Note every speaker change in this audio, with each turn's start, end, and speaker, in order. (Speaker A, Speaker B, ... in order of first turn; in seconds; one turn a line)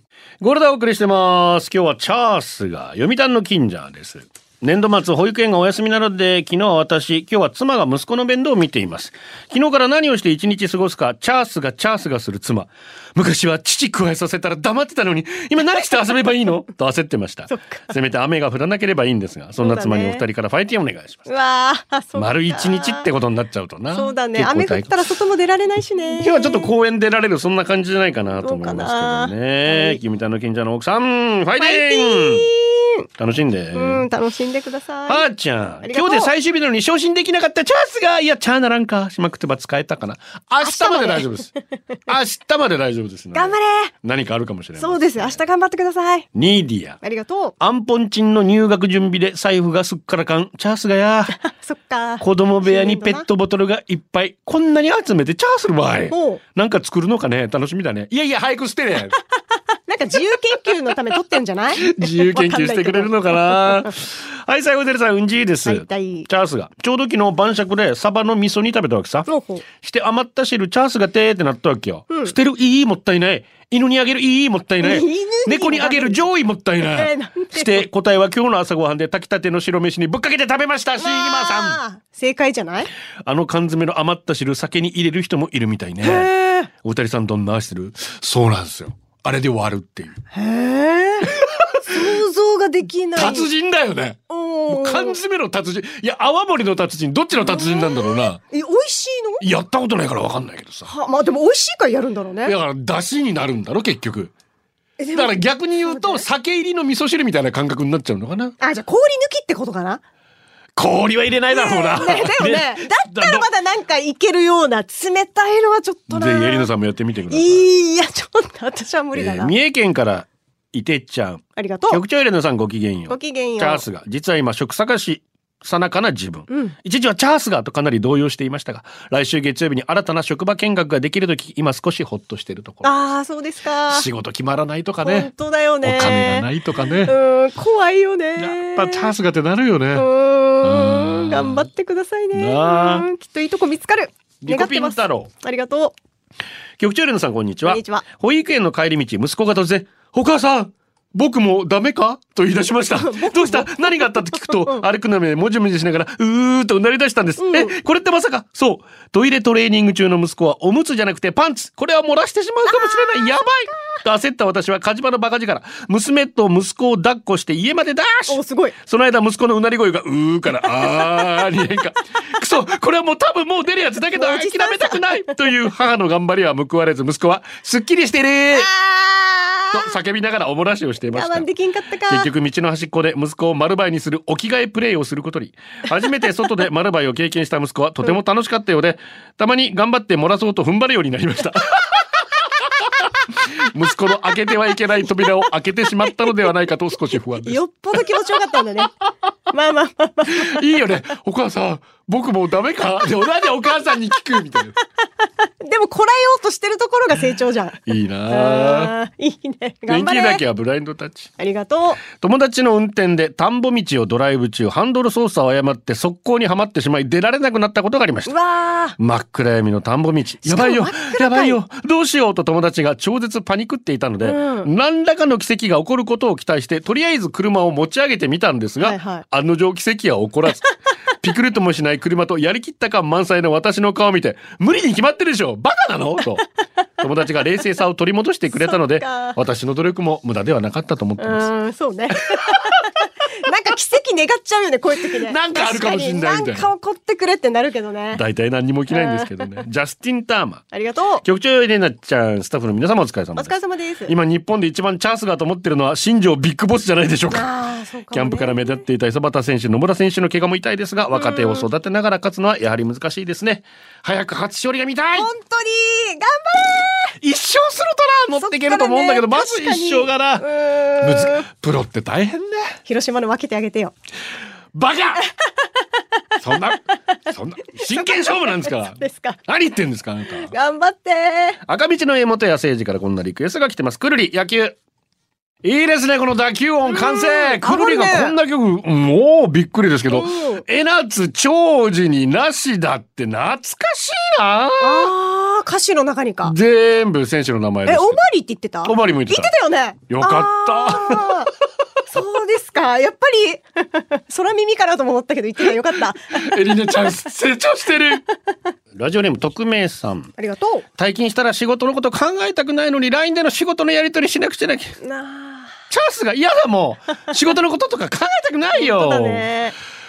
Speaker A: 0.4-21.3
Speaker B: 17.5-17.9
Speaker B: 19.6-20.2
Speaker B: 21.3-23.1
Speaker A: 22.1-25.0
Speaker B: 23.9-26.7
Speaker A: 26.2-32.5
Speaker B: 28.4-30.0
Speaker B: 31.6-33.1
Speaker A: 33.2-34.0
Speaker B: 33.7-35.2
Speaker A: 35.1-41.5
Speaker B: 35.8-36.3
Speaker B: 40.6-41.3
Speaker A: 42.1-45.4
Speaker B: 43.3-43.9
Speaker B: 44.8-46.3
Speaker A: 46.3-47.0
Speaker B: 47.0-47.5
Speaker A: 47.6-51.4
Speaker B: 51.5-53.3
Speaker A: 52.2-59.2
Speaker B: 56.1-56.4
Speaker B: 59.9-63.9
Speaker A: 61.8-81.8
Speaker B: 65.7-66.3
Speaker B: 69.3-69.7
Speaker B: 72.1-72.3
Speaker B: 74.8-76.3
Speaker B: 77.0-77.9
Speaker B: 81.0-82.9
Speaker A: 83.2-86.3
Speaker B: 86.0-86.7
Speaker A: 86.8-90.2
Speaker B: 90.3-93.5
Speaker A: 91.2-92.2
Speaker A: 93.2-98.4
Speaker B: 94.3-95.2
Speaker B: 97.4-99.5
Speaker A: 99.4-100.9
Speaker B: 100.9-102.5
Speaker A: 102.4-104.3
Speaker B: 105.0-106.2
Speaker A: 105.1-108.6
Speaker B: 108.6-110.0
Speaker A: 110.8-113.5
Speaker B: 111.5-116.7
Speaker A: 116.1-117.7
Speaker B: 117.3-119.5
Speaker A: 119.1-132.9
Speaker B: 121.6-122.0
Speaker B: 123.1-123.8
Speaker B: 132.8-134.1
Speaker A: 133.9-135.3
Speaker B: 135.0-136.5
Speaker A: 135.8-137.2
Speaker B: 137.1-139.1
Speaker A: 138.4-140.1
Speaker B: 139.9-145.9
Speaker A: 140.6-141.7
Speaker A: 142.3-143.1
Speaker A: 144.4-145.3
Speaker A: 146.8-178.7
Speaker B: 147.7-148.1
Speaker B: 152.9-154.9
Speaker B: 157.4-157.8
Speaker B: 162.7-163.4
Speaker B: 168.3-168.8
Speaker B: 174.2-175.3
Speaker B: 178.5-179.9
Speaker A: 179.7-181.5
Speaker B: 181.1-182.3
Speaker A: 182.1-193.1
Speaker A: 193.6-198.2
Speaker B: 197.4-198.9
Speaker B: 199.5-200.6
Speaker A: 200.3-204.8
Speaker B: 205.6-210.4
Speaker A: 207.9-208.9
Speaker A: 209.9-211.3
Speaker B: 211.4-212.0
Speaker A: 212.0-218.3
Speaker B: 218.3-219.0
Speaker A: 219.0-236.4
Speaker B: 220.4-221.6
Speaker B: 224.2-224.7
Speaker B: 228.8-229.2
Speaker A: 237.0-241.5
Speaker B: 238.5-239.4
Speaker B: 241.2-248.2
Speaker A: 242.3-242.8
Speaker A: 245.1-246.7
Speaker A: 248.1-250.7
Speaker B: 248.9-249.5
Speaker B: 250.7-251.2
Speaker A: 251.2-257.5
Speaker B: 253.3-254.1
Speaker B: 257.3-258.8
Speaker A: 258.1-265.3
Speaker B: 261.1-261.7
Speaker B: 265.1-267.2
Speaker A: 267.2-270.5
Speaker B: 268.3-271.4
Speaker A: 271.0-272.8
Speaker B: 272.9-273.9
Speaker A: 274.7-275.2
Speaker A: 276.4-280.5
Speaker B: 277.9-279.4
Speaker B: 280.3-281.6
Speaker A: 281.6-284.8
Speaker A: 285.6-295.1
Speaker B: 286.8-288.3
Speaker B: 290.1-290.6
Speaker B: 294.8-296.6
Speaker A: 296.4-298.2
Speaker B: 297.9-301.5
Speaker A: 298.8-299.5
Speaker A: 300.1-301.5
Speaker B: 302.1-306.5
Speaker A: 306.3-308.2
Speaker A: 308.9-310.3
Speaker B: 310.4-310.9
Speaker A: 311.0-314.9
Speaker B: 315.0-315.8
Speaker A: 315.9-319.5
Speaker B: 318.7-319.8